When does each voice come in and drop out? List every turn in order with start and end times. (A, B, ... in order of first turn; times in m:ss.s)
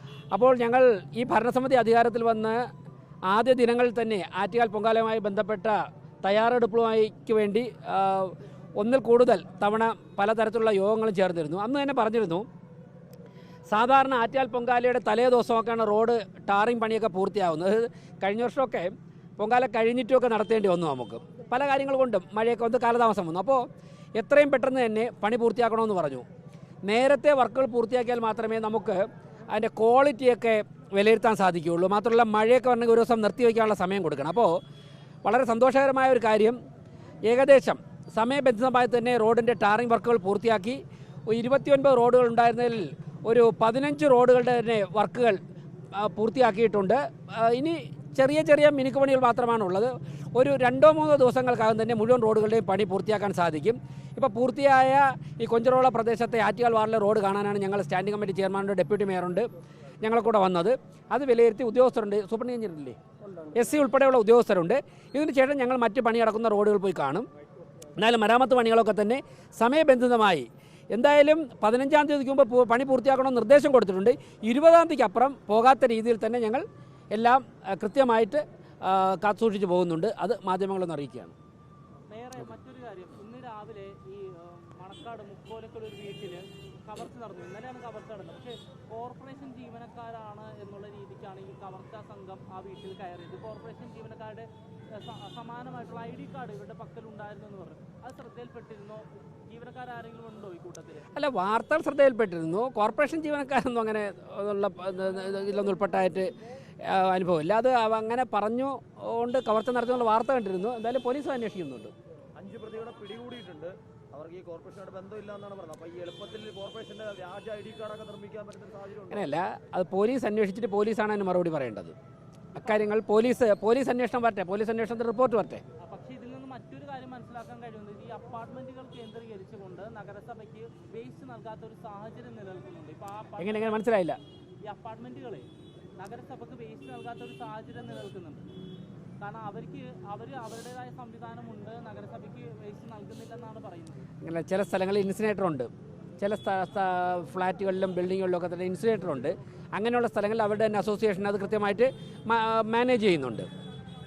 0:00.3-0:02.6 A
0:03.3-0:12.4 A
0:13.7-0:23.6 A
0:24.2-0:26.2 A
0:26.8-0:34.6 A
0:35.2-0:36.6 A
0:37.2-0:45.4 A
0:45.9-0:59.5 A
1:00.0-1:03.0 A
1:03.5-1:07.3 A
1:08.0-1:21.3 A
1:22.1-1:41.1 B
1:41.1-1:46.3 A
1:46.8-1:51.9 A
1:52.4-1:59.2 C
1:59.1-2:01.9 A
2:02.6-2:05.6 A
2:05.8-2:13.9 B
2:13.4-2:14.2 A
2:14.6-2:15.5 B
2:16.0-2:18.5 B
2:19.2-2:24.0 B
2:24.2-2:33.5 A